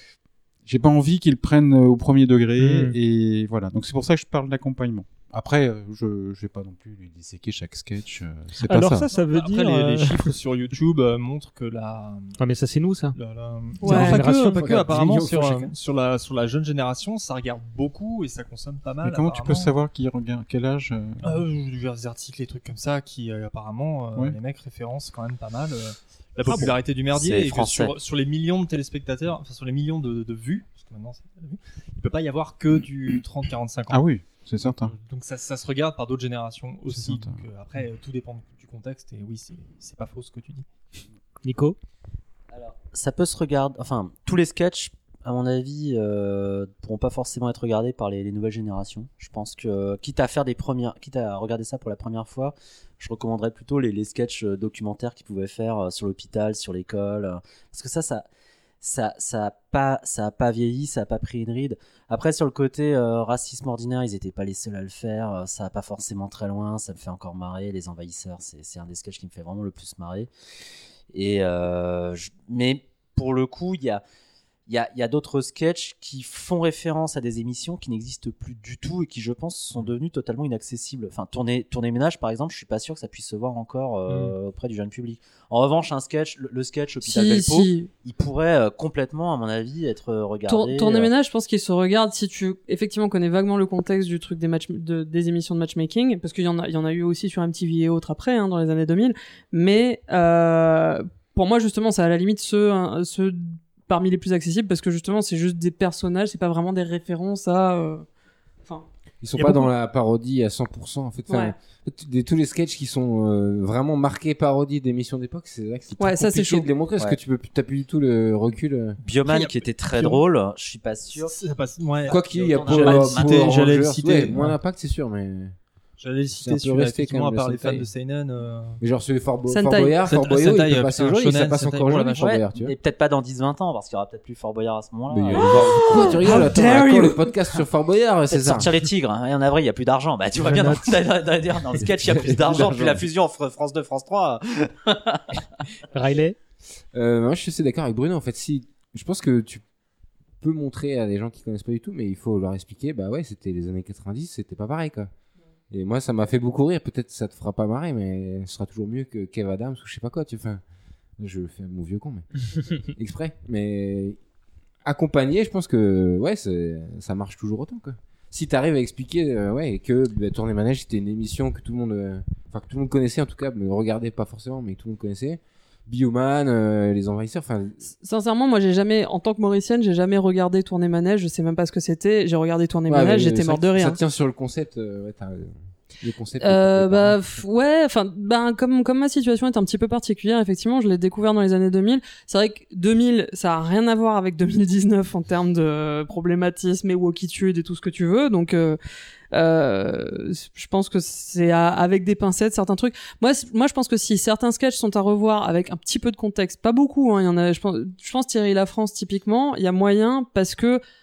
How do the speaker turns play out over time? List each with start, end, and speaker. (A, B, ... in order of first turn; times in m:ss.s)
0:00.6-0:09.1 A
0:02.6-0:03.0 B
0:08.6-0:10.3 B
0:09.1-0:12.4 C
0:12.4-0:13.2 B
0:13.1-0:19.7 C
0:13.8-0:14.2 D
0:13.8-0:14.8 B
0:14.3-0:15.7 E
0:19.0-0:21.4 A
0:21.2-0:34.0 C
0:26.5-0:27.9 F
0:33.9-0:34.9 A
0:34.8-0:40.6 C
0:36.9-0:37.4 A
0:41.4-0:41.8 B
0:42.5-0:58.3 F
0:58.8-1:10.3 F
1:11.1-1:14.0 F
1:14.7-1:31.1 F
1:27.0-1:27.9 D
1:30.5-1:48.1 D
1:48.6-1:49.7 D
1:49.2-1:59.0 E
1:51.3-1:51.6 D
1:56.0-1:56.7 D
1:59.0-2:01.4 F
1:59.2-2:00.2 C
2:01.2-2:04.6 C
2:02.0-2:03.6 F
2:02.1-2:05.6 E
2:06.0-2:08.8 C
2:06.4-2:07.9 E
2:08.8-2:12.8 E
2:09.5-2:10.0 D
2:10.0-2:12.3 C
2:12.1-2:16.5 F
2:15.1-2:18.7 E
2:15.6-2:17.3 D
2:18.3-2:25.4 F
2:20.4-2:20.9 B
2:22.0-2:23.0 E
2:25.9-2:26.4 B
2:26.9-2:29.6 E
2:30.4-2:35.1 E
2:35.7-2:40.6 E
2:41.2-2:44.2 E
2:44.8-2:57.8 E
2:58.0-3:04.0 D
3:02.9-3:07.2 E
3:06.4-3:18.8 D
3:19.3-3:30.8 D